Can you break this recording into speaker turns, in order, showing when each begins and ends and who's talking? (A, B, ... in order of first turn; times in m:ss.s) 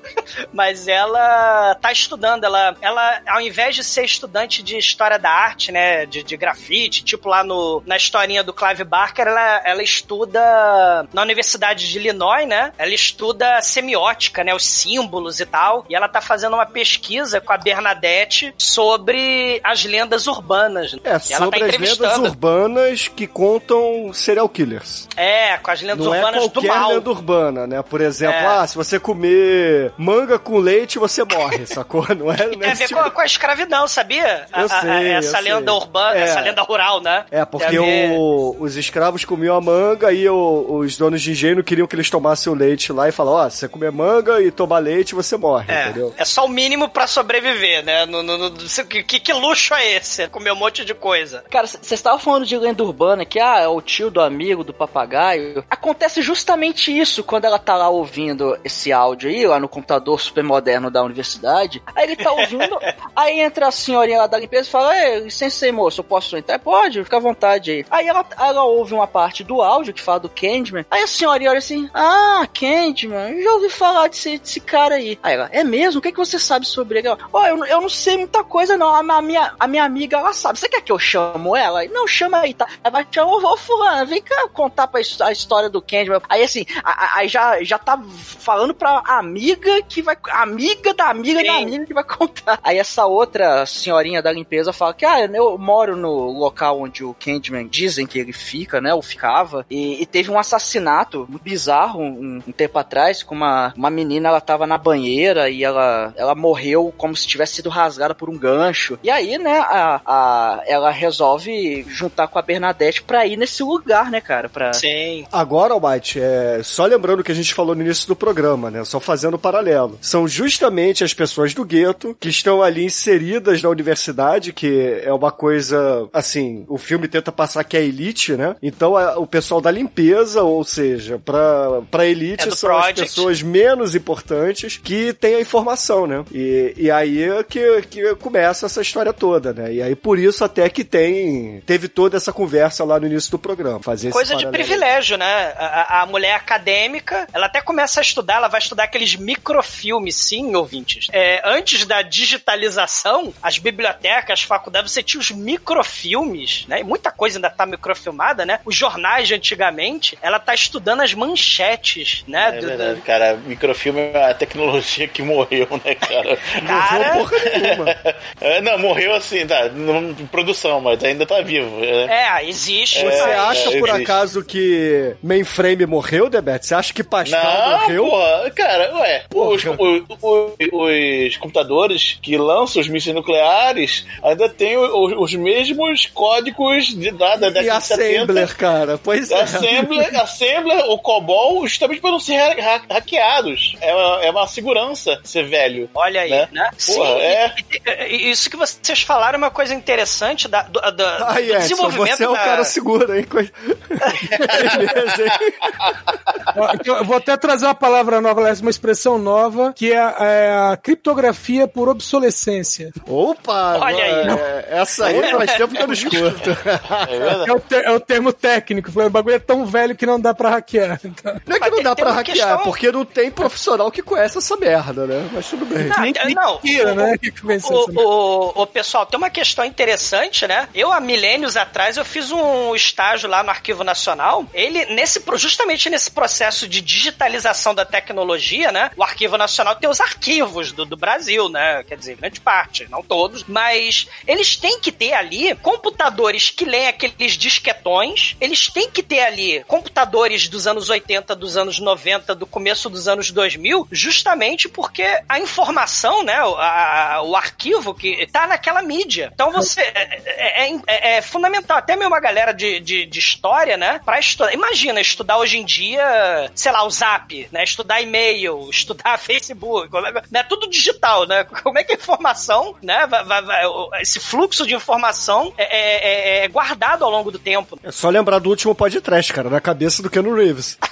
0:00.5-0:22.3 A
0:21.0-0:25.1 B
0:25.2-0:27.0 A
0:25.9-0:33.1 B
0:28.2-0:28.6 A
0:32.6-0:38.2 A
0:34.6-0:36.6 B
0:37.3-0:46.1 B
0:45.7-0:51.4 A
0:51.5-1:54.8 C
1:02.3-1:02.6 A
1:31.4-1:31.7 A
1:54.7-1:55.3 A
1:55.3-2:24.8 B
2:12.4-2:13.3 A
2:24.1-2:43.0 A
2:42.4-2:46.8 D
2:46.6-2:47.2 A
2:46.6-2:47.9 B
2:47.6-2:52.1 D
2:52.1-2:54.0 A
2:52.9-2:54.2 D
2:53.0-2:58.2 B
2:57.2-3:08.5 D
2:59.4-2:59.8 B
3:07.4-3:10.0 B
3:09.3-3:17.6 D
3:16.0-3:22.7 A
3:21.2-3:25.7 B
3:24.4-3:25.4 D
3:25.9-3:26.1 D
3:26.5-3:32.9 E
3:33.1-3:37.2 B
3:33.7-3:34.4 A
3:35.1-3:35.6 A
3:35.8-3:36.1 E
3:37.1-3:37.6 D
3:37.4-3:41.4 E
3:41.5-3:46.0 B
3:41.6-3:42.7 A
3:45.8-3:48.0 E
3:46.0-4:37.8 A
4:37.8-4:40.8 B